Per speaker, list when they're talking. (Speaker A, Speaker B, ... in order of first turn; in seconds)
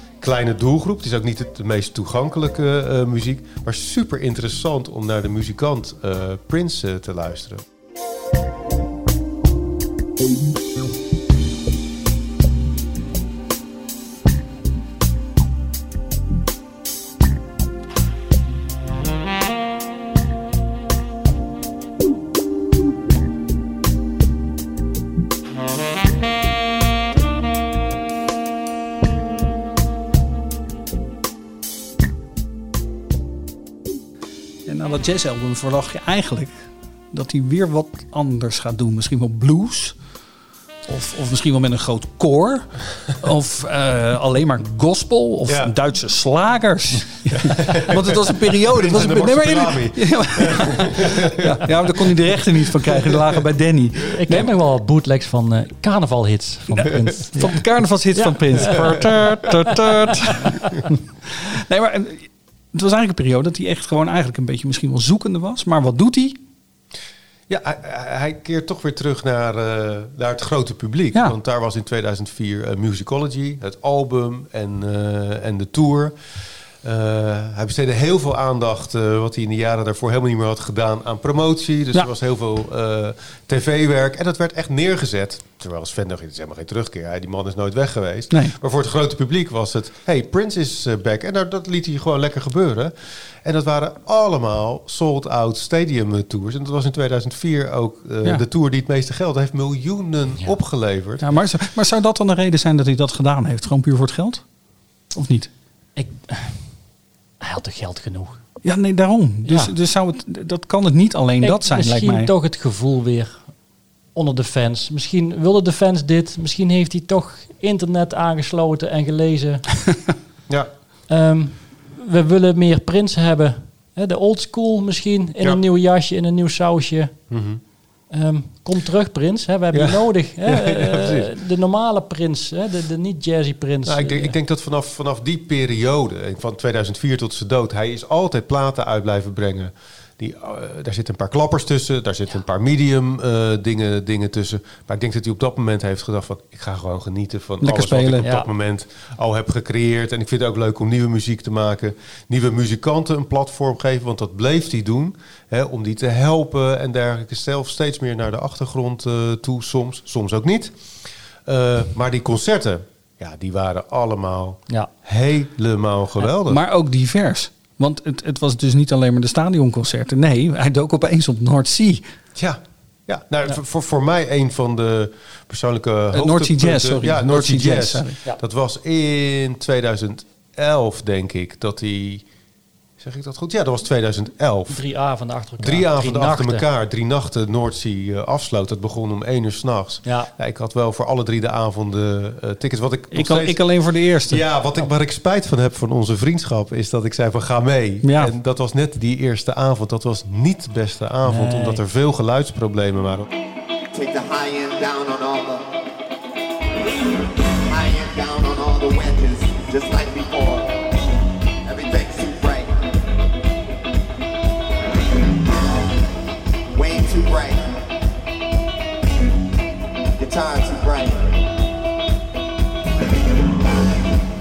Speaker A: 0.2-7.7, 45.5-45.7, 47.3-52.1, 56.9-57.2, 67.5-101.3, 127.3-127.6, 129.7-131.3, 133.8-166.6, 172.3-182.3, 183.0-184.8, 185.6-193.7, 194.2-203.3
Speaker B: 34.7-40.0, 40.9-54.5, 56.7-60.7, 61.4-66.4, 88.3-88.6, 101.2-104.5, 105.1-105.5, 108.6-112.3, 147.6-148.3, 166.5-172.1, 176.1-178.2, 193.1-194.4, 198.0-198.3
Speaker C: 54.1-57.6, 58.2-59.1, 106.0-106.8, 107.4-108.5, 109.5-109.7, 111.4-113.5, 114.1-119.8, 121.1-127.2, 128.1-134.3, 148.2-148.5, 184.7-186.7, 190.1-190.3, 201.2-201.8
Speaker D: 203.9-205.7, 207.7-210.8, 211.6-212.7, 216.7-217.7, 220.2-221.3